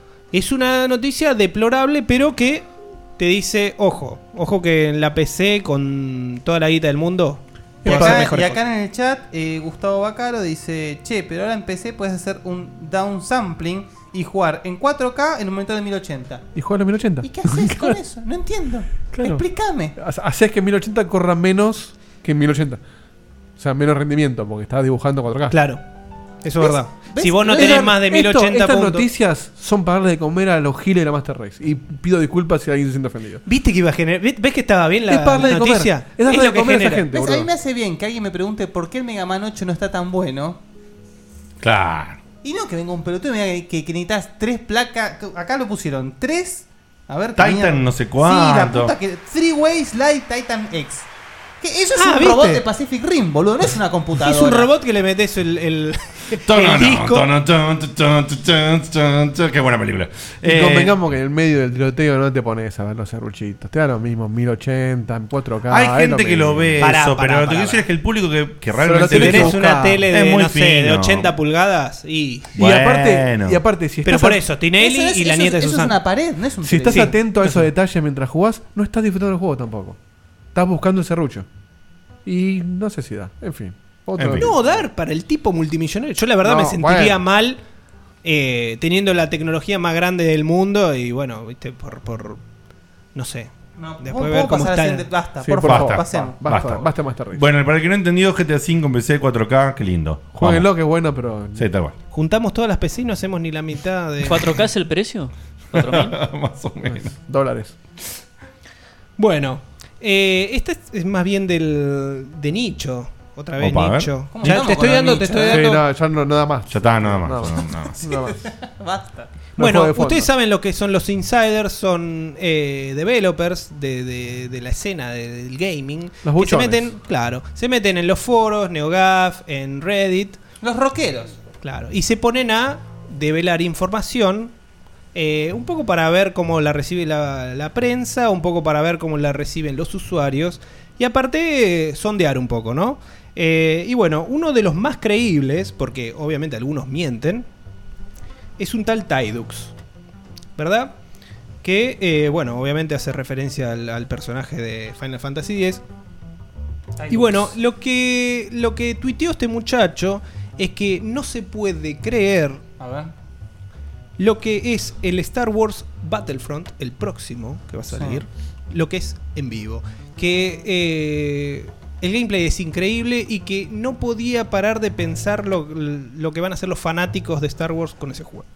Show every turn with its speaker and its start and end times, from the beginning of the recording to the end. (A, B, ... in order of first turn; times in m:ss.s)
0:00.3-0:02.7 A
0:03.2-0:08.6 A
0:07.8-0:08.4 B
0:07.8-0:16.5 C
0:16.6-0:18.0 B
0:17.2-0:20.0 C
0:19.1-0:19.4 B
0:20.0-0:22.8 B
0:23.6-0:25.6 B
0:25.5-0:25.8 A
0:26.4-0:29.1 A
0:26.6-0:28.0 C
0:27.4-0:33.4 B
0:33.4-0:37.1 A
0:35.1-0:37.5 B
0:37.1-0:40.6 C
0:41.6-0:42.2 D
0:42.4-0:51.1 C
0:47.4-0:48.9 D
0:51.6-0:54.7 C
0:52.0-0:52.6 A
0:54.2-0:57.3 A
0:56.4-1:01.0 D
1:00.4-1:06.8 B
1:05.7-1:11.3 D
1:06.8-1:07.9 A
1:08.8-1:10.0 B
1:09.1-1:12.5 A
1:12.6-1:13.6 D
1:12.6-1:14.4 B
1:14.0-1:16.0 A
1:14.8-1:17.2 C
1:16.6-1:20.0 B
1:16.9-1:17.2 A
1:20.5-1:21.5 B
1:22.2-1:24.5 B
1:24.2-1:24.5 D
1:24.4-1:27.6 A
1:26.4-1:27.2 B
1:28.2-1:32.4 A
1:33.2-1:35.1 A
1:33.8-1:36.4 C
1:35.4-1:37.4 B
1:35.6-1:40.7 D
1:40.3-1:41.7 B
1:41.6-1:41.9 D
1:42.1-1:44.6 A
1:44.2-1:46.2 E
1:45.8-1:47.1 D
1:46.9-1:47.7 B
1:49.2-1:55.8 A
1:53.6-1:54.7 D
1:54.3-1:55.8 C
1:55.4-1:58.4 B
1:56.7-1:58.2 D
1:58.1-1:59.3 C
1:59.6-2:00.3 B
1:59.6-2:10.4 A
2:06.2-2:06.9 B
2:10.6-2:11.4 C
2:11.6-2:14.5 A
2:15.1-2:27.4 A
2:28.6-2:29.7 A
2:30.6-2:31.0 A
2:31.6-2:35.8 A
2:37.0-2:37.5 C
2:37.1-2:42.6 A
2:42.8-2:43.1 C
2:44.2-2:58.5 A
2:47.9-2:48.2 C